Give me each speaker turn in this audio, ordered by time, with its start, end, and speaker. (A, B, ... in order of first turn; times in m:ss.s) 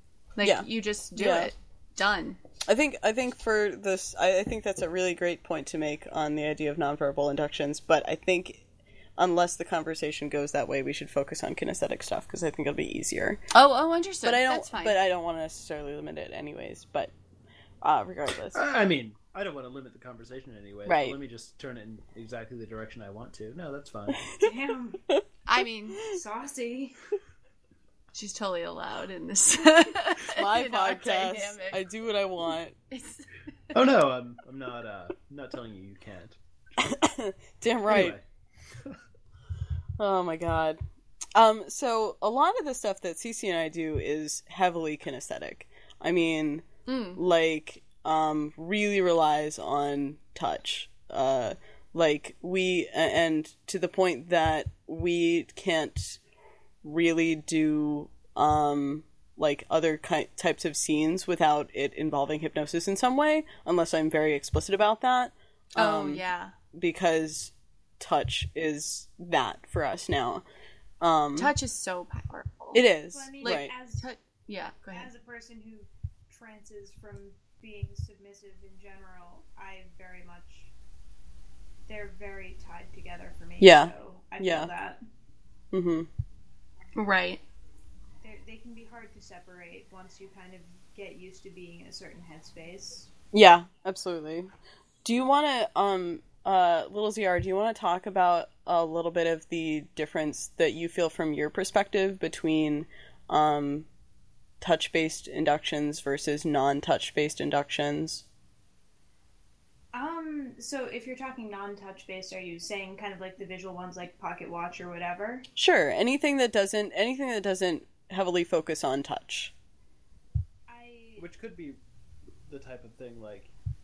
0:00.4-0:02.4 A
0:00.4-0:01.5 B
0:02.6-0:08.6 B
0:09.2-0:13.4 B
0:13.5-0:15.0 A
0:14.2-0:17.1 B
0:17.8-0:18.6 B
0:18.5-0:24.2 C
0:20.8-0:21.2 B
0:24.4-0:25.0 D
0:25.4-0:26.0 A
0:26.0-0:27.0 D
0:28.1-0:31.8 A
0:30.3-0:32.7 B
0:32.9-0:33.4 A
0:33.7-0:36.4 C
0:36.8-0:38.2 B
0:37.9-0:39.0 C
0:40.0-0:40.8 B
0:41.3-0:56.2 B
0:46.8-0:47.2 A
0:56.8-1:10.4 B
1:05.7-1:06.5 A
1:11.0-1:11.5 B
1:11.4-1:12.8 A
1:12.7-1:13.7 B
1:13.1-1:14.1 D
1:13.4-1:15.1 A
1:14.9-1:20.7 D
1:21.9-1:25.0 D
1:23.6-1:24.7 B
1:25.7-1:26.1 B
1:27.0-1:27.4 A
1:28.2-1:33.1 D
1:33.3-1:34.5 B
1:35.0-1:43.9 B
1:44.6-1:48.2 B
1:49.9-1:55.4 D
1:55.6-1:59.5 B
2:00.7-2:01.2 D
2:01.2-2:01.8 C
2:02.5-2:03.5 C